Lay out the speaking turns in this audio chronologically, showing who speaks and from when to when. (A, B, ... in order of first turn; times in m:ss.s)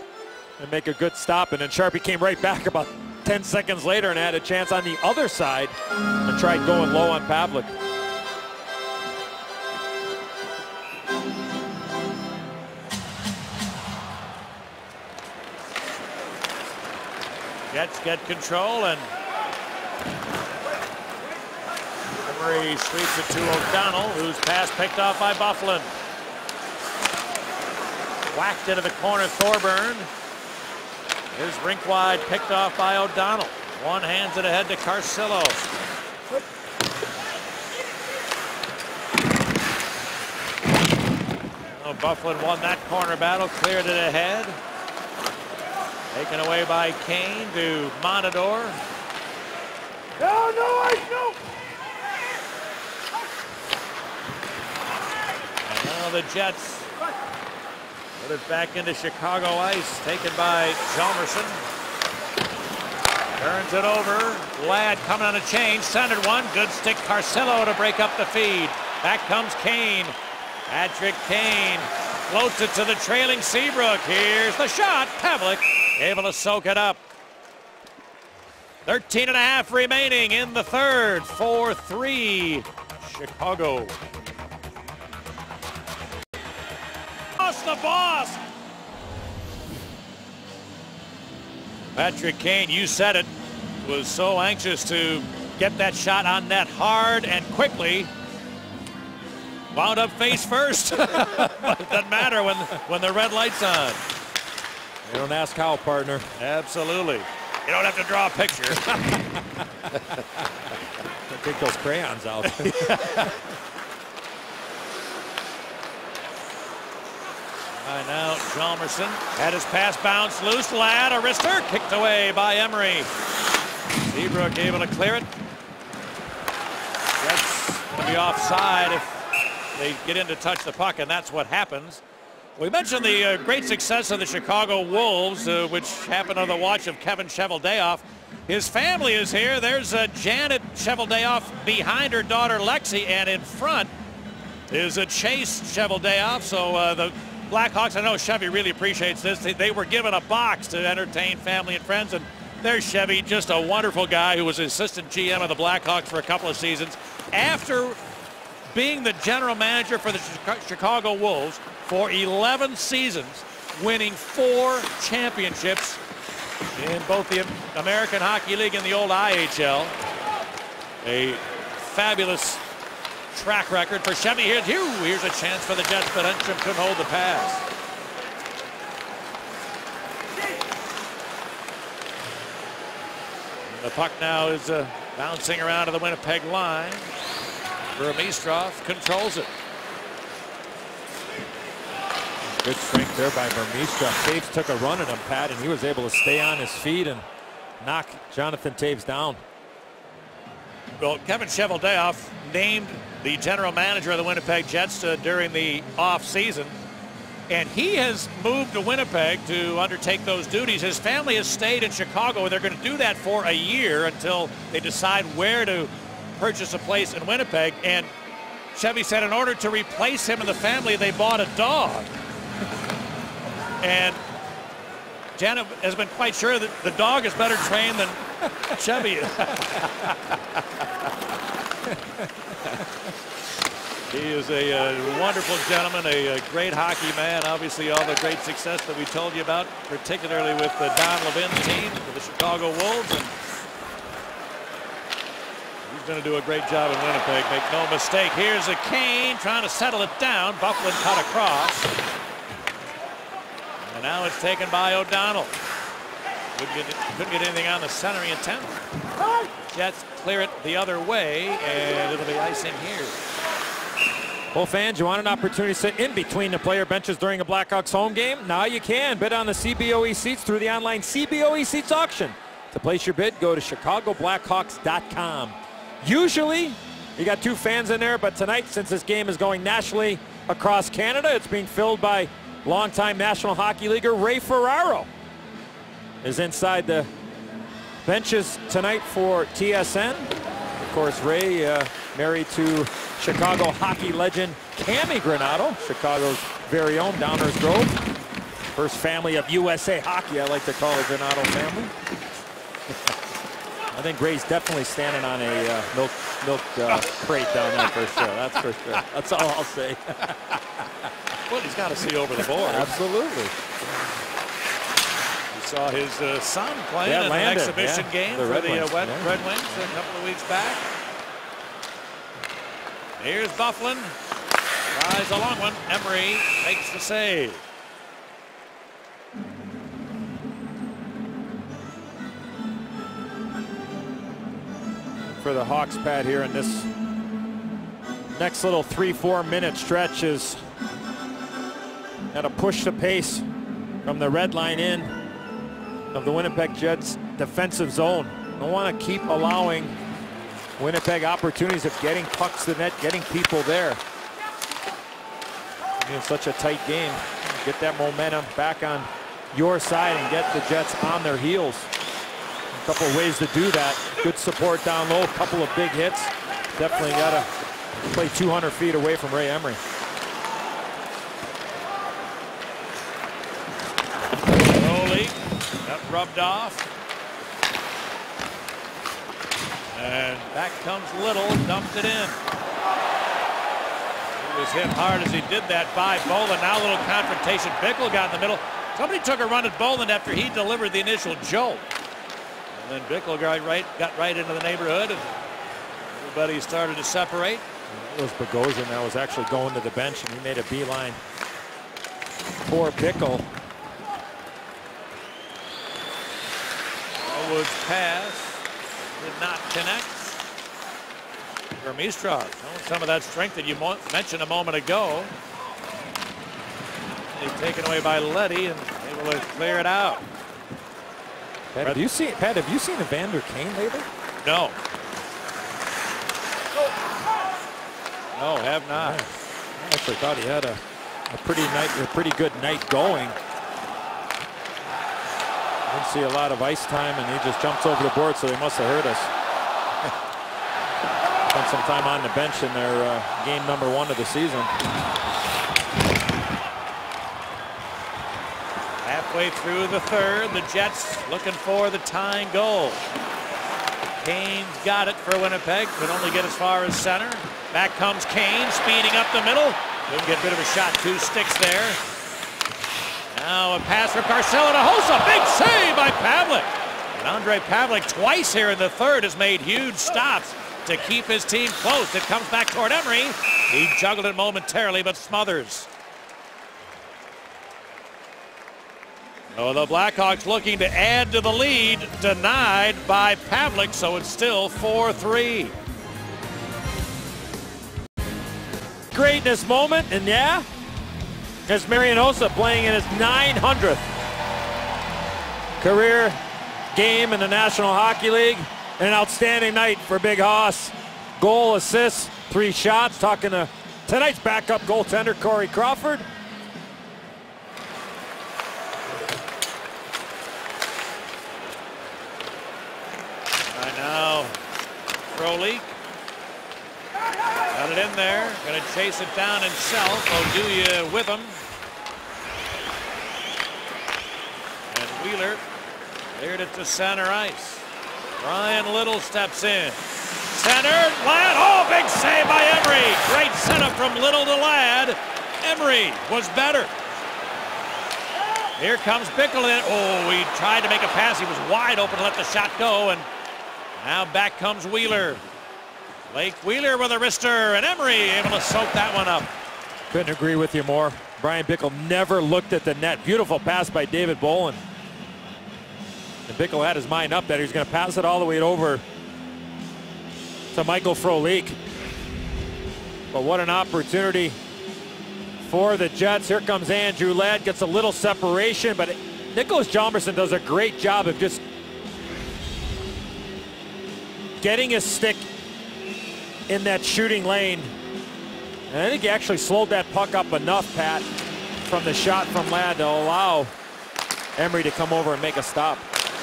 0:00.6-0:07.7 A
0:17.7-0:19.1 B
0:22.2-0:25.9 B
0:28.3-0:30.1 B
0:31.3-0:35.6 B
0:41.7-0:44.6 B
0:46.1-0:48.8 B
0:55.6-0:56.9 B
0:58.2-1:01.6 B
1:03.3-1:10.2 B
1:10.7-1:17.0 B
1:18.8-1:24.0 B
1:27.4-1:28.4 B
1:31.9-1:38.1 B
1:39.7-1:44.0 B
1:45.0-1:46.3 A
1:46.4-1:49.0 B
1:51.3-1:53.3 A
1:52.6-1:53.4 B
1:57.8-2:03.1 B
2:04.1-2:05.3 B
2:07.2-2:09.1 B
2:09.7-2:12.0 B
2:12.6-2:23.9 B
2:24.7-2:38.0 B
2:38.7-2:46.0 B
2:46.7-2:49.9 B
2:51.0-2:52.6 B
2:53.3-2:57.7 B
3:03.7-3:07.1 B
3:07.9-3:09.5 B
3:12.6-3:17.2 A
3:17.8-3:19.4 A
3:21.0-3:26.8 B
3:27.5-3:38.1 B
3:38.7-3:42.1 B
3:43.8-3:44.2 B
3:45.4-3:50.3 B
3:54.1-4:03.3 B
4:05.8-4:11.9 B
4:13.8-4:15.5 B
4:16.5-4:18.8 B
4:19.7-4:23.2 B
4:24.5-4:45.1 A
4:46.2-4:47.1 A
4:48.0-4:58.0 A
4:58.7-5:01.9 A
5:03.9-5:10.4 A
5:11.5-5:13.0 B
5:12.6-5:13.5 A
5:15.5-5:20.8 B
5:17.0-5:19.4 A
5:23.2-5:24.1 B
5:24.9-5:27.6 B
5:35.4-5:36.9 A
5:38.3-5:40.6 A
5:42.3-5:43.4 A
5:44.0-5:45.1 A
5:46.1-5:50.0 A
5:50.8-5:54.0 A
5:56.0-6:01.9 A
6:02.7-6:07.5 A
6:08.1-6:09.8 A
6:14.6-6:16.8 B
6:19.9-6:22.4 B
6:24.4-6:31.8 B
6:32.7-6:35.3 B
6:36.1-6:37.6 B
6:37.9-6:41.2 A
6:42.6-6:43.5 A
6:47.2-6:48.6 B
6:49.2-6:50.4 B
6:51.8-6:55.3 B
6:57.3-7:00.2 B
7:01.7-7:04.1 A
7:04.4-7:04.8 B
7:08.3-7:09.2 B
7:08.9-7:13.4 A
7:15.9-7:19.3 A
7:21.5-7:24.7 A
7:29.0-7:33.0 B
7:34.2-7:42.0 B
7:43.3-7:55.9 B
7:59.5-8:05.7 B
8:09.1-8:10.6 A
8:11.7-8:14.1 A
8:15.8-8:16.4 A
8:16.9-8:26.3 A
8:33.7-8:34.6 B
8:35.3-8:35.9 B
8:37.7-8:41.6 B
8:44.9-8:45.6 B
8:46.3-8:47.8 B
8:48.4-8:56.9 B
8:58.8-9:03.3 B
9:04.0-9:05.4 B
9:06.3-9:09.5 B
9:10.1-9:14.8 A
9:16.5-9:19.0 A
9:20.7-9:21.8 A
9:23.3-9:24.6 A
9:25.6-9:31.6 A
9:34.6-9:35.5 A
9:36.7-9:37.9 A
9:38.9-9:41.3 A
9:41.8-9:43.7 A
9:44.6-9:46.0 A